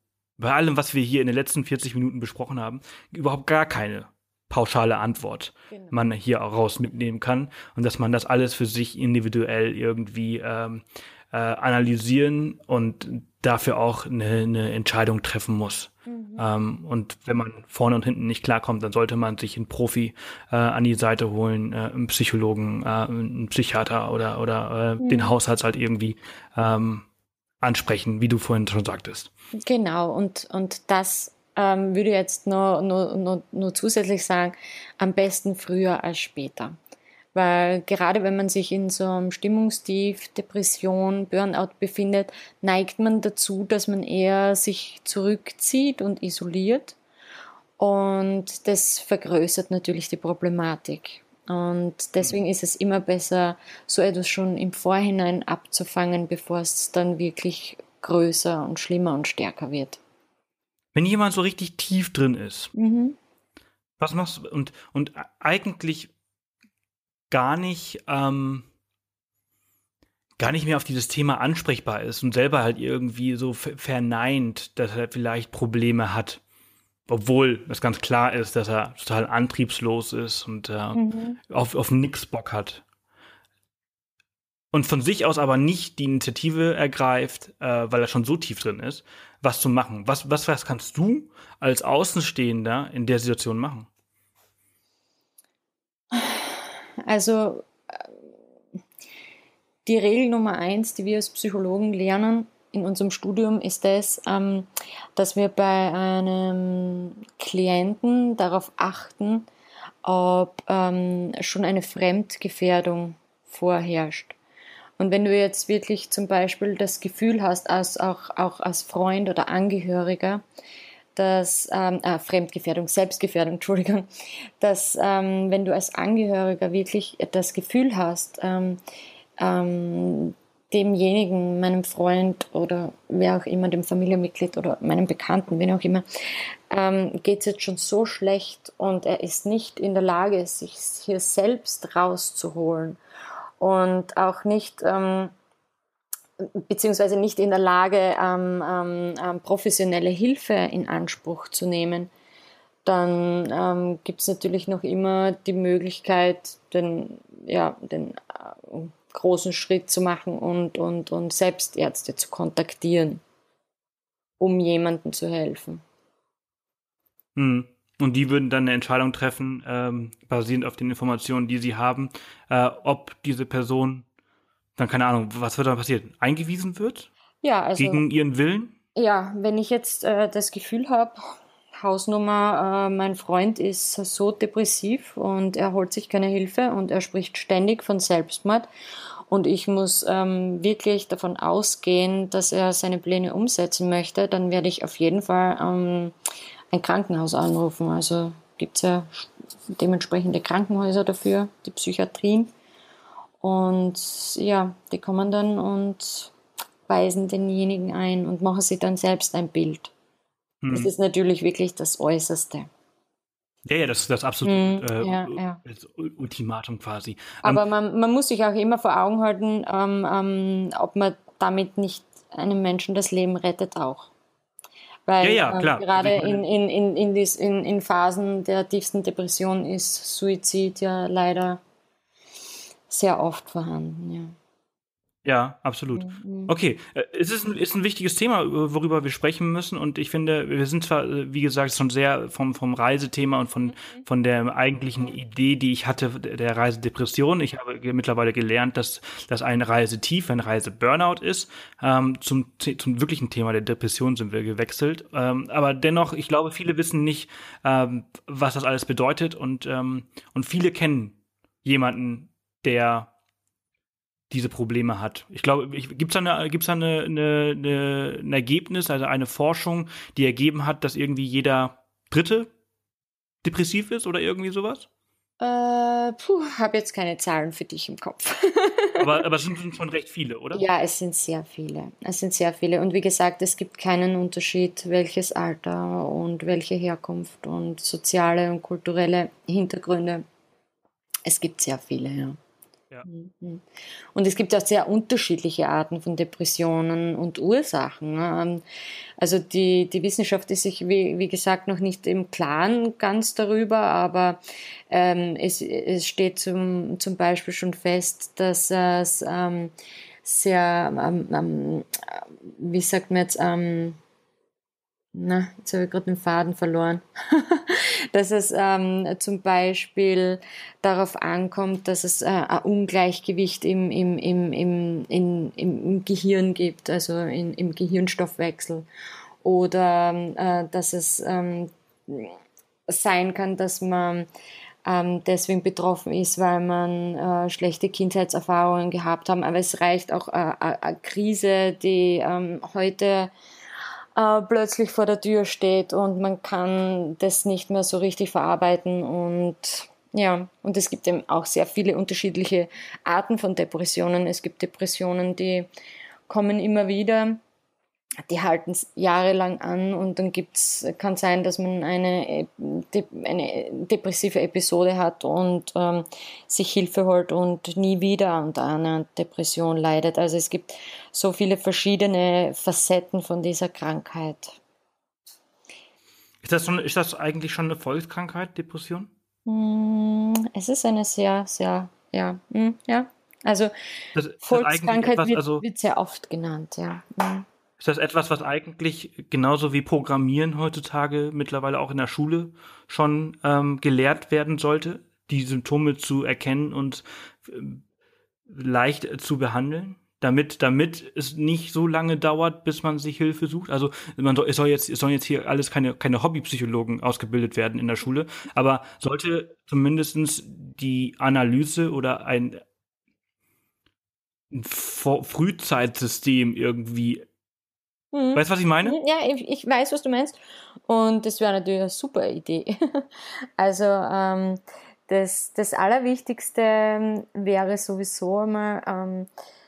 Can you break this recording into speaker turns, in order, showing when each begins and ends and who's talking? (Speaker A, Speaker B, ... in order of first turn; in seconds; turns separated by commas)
Speaker A: 0.4-27.0, Speaker B: 5.7-6.0, Speaker B: 16.1-16.4, Speaker B: 25.0-25.3, Speaker A: 27.6-29.3, Speaker B: 29.6-36.8, Speaker B: 37.3-47.0, Speaker B: 47.8-60.0, Speaker A: 60.9-62.7, Speaker B: 62.8-63.2, Speaker A: 64.0-66.1, Speaker A: 67.3-68.7, Speaker A: 70.4-76.4, Speaker A: 77.1-82.8, Speaker B: 80.9-81.4, Speaker A: 84.7-93.9, Speaker B: 96.1-98.1, Speaker B: 99.8-109.5, Speaker B: 110.0-114.3, Speaker B: 115.0-120.4, Speaker B: 121.1-124.1, Speaker B: 124.6-128.8, Speaker B: 129.4-143.0, Speaker B: 143.6-145.3, Speaker B: 146.6-152.1, Speaker B: 152.8-163.2, Speaker B: 164.4-165.8, Speaker A: 167.3-174.0, Speaker A: 174.8-177.1, Speaker B: 177.4-178.0, Speaker A: 177.8-178.7, Speaker B: 178.9-181.2, Speaker B: 181.8-188.7, Speaker B: 189.3-196.1, Speaker B: 196.7-202.5, Speaker B: 203.4-206.3, Speaker B: 206.9-209.9, Speaker A: 210.6-210.9, Speaker B: 210.7-212.7, Speaker A: 213.7-217.6, Speaker B: 214.4-215.6, Speaker B: 217.4-224.1, Speaker B: 225.1-231.6, Speaker A: 225.2-226.4, Speaker B: 232.9-234.3, Speaker A: 235.2-263.1, Speaker B: 235.9-236.5, Speaker A: 264.3-272.5, Speaker A: 273.4-274.9, Speaker B: 275.4-279.1, Speaker A: 279.0-280.6, Speaker B: 280.5-290.2, Speaker B: 291.2-292.4, Speaker B: 293.1-293.6, Speaker B: 294.1-298.6, Speaker B: 299.2-309.7, Speaker B: 310.2-314.0, Speaker B: 315.1-328.9, Speaker B: 329.4-332.4, Speaker B: 332.9-334.3, Speaker B: 334.8-343.3, Speaker B: 344.1-355.7, Speaker B: 356.3-357.4, Speaker B: 358.2-374.6, Speaker A: 376.4-379.1, Speaker B: 379.4-383.7, Speaker A: 384.1-385.6, Speaker B: 384.4-387.4, Speaker A: 387.8-397.8, Speaker A: 398.5-412.6, Speaker A: 414.5-417.2, Speaker B: 418.1-423.0, Speaker A: 418.3-419.0, Speaker B: 423.6-429.3